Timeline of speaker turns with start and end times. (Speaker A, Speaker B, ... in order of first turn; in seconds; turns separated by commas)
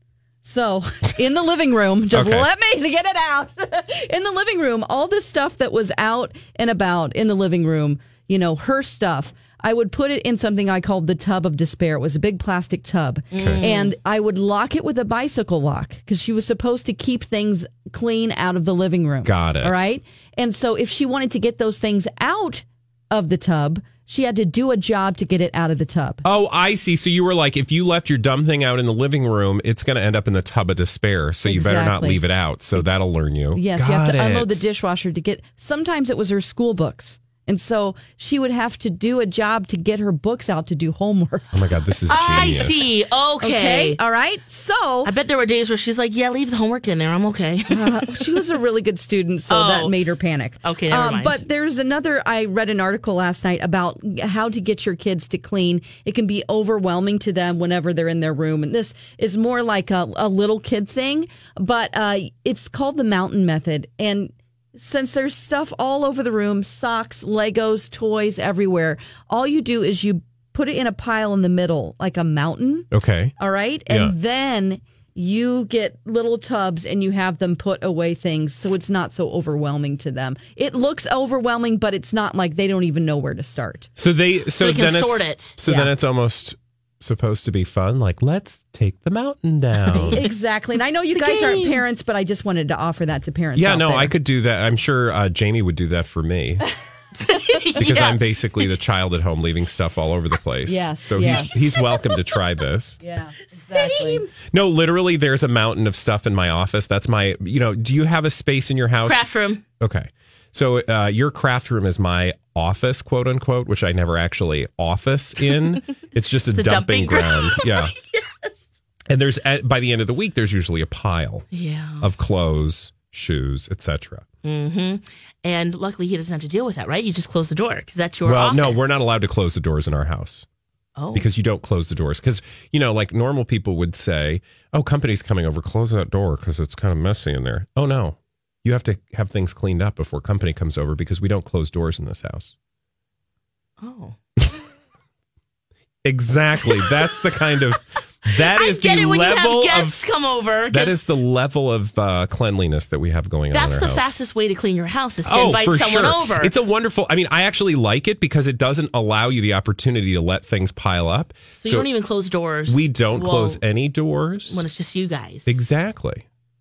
Speaker A: 0.4-26.2, Speaker B: 2.1-2.5, Speaker C: 13.3-13.9, Speaker B: 13.3-13.6, Speaker B: 19.2-19.8, Speaker B: 26.2-34.6, Speaker A: 31.4-32.9, Speaker A: 33.5-41.5, Speaker B: 41.5-42.9, Speaker C: 42.1-44.0, Speaker A: 43.4-45.1, Speaker C: 45.0-48.4, Speaker A: 47.7-72.9, Speaker C: 49.5-50.0, Speaker C: 50.6-51.4, Speaker B: 72.9-73.3, Speaker A: 73.4-83.9, Speaker B: 73.9-74.2, Speaker B: 84.0-90.2, Speaker C: 84.6-85.6, Speaker C: 89.9-90.3, Speaker A: 90.1-94.1, Speaker C: 91.2-91.8, Speaker B: 93.5-96.7, Speaker C: 97.2-98.7, Speaker B: 97.8-103.0, Speaker A: 100.7-101.7, Speaker C: 101.2-102.2, Speaker A: 103.0-104.2, Speaker C: 103.5-104.3, Speaker B: 104.5-109.3, Speaker C: 109.0-109.6, Speaker B: 109.8-117.9, Speaker C: 116.5-118.6, Speaker B: 119.1-121.5, Speaker C: 121.5-122.1, Speaker B: 122.0-124.3, Speaker C: 124.4-129.1, Speaker B: 128.2-130.5, Speaker C: 131.0-131.3, Speaker B: 131.1-142.5, Speaker C: 143.8-144.2, Speaker B: 146.1-150.0, Speaker C: 148.3-151.0, Speaker B: 150.7-154.1, Speaker C: 153.5-156.5, Speaker B: 155.2-161.9, Speaker C: 161.6-163.6, Speaker B: 162.7-164.6, Speaker C: 164.5-165.6, Speaker B: 165.5-166.2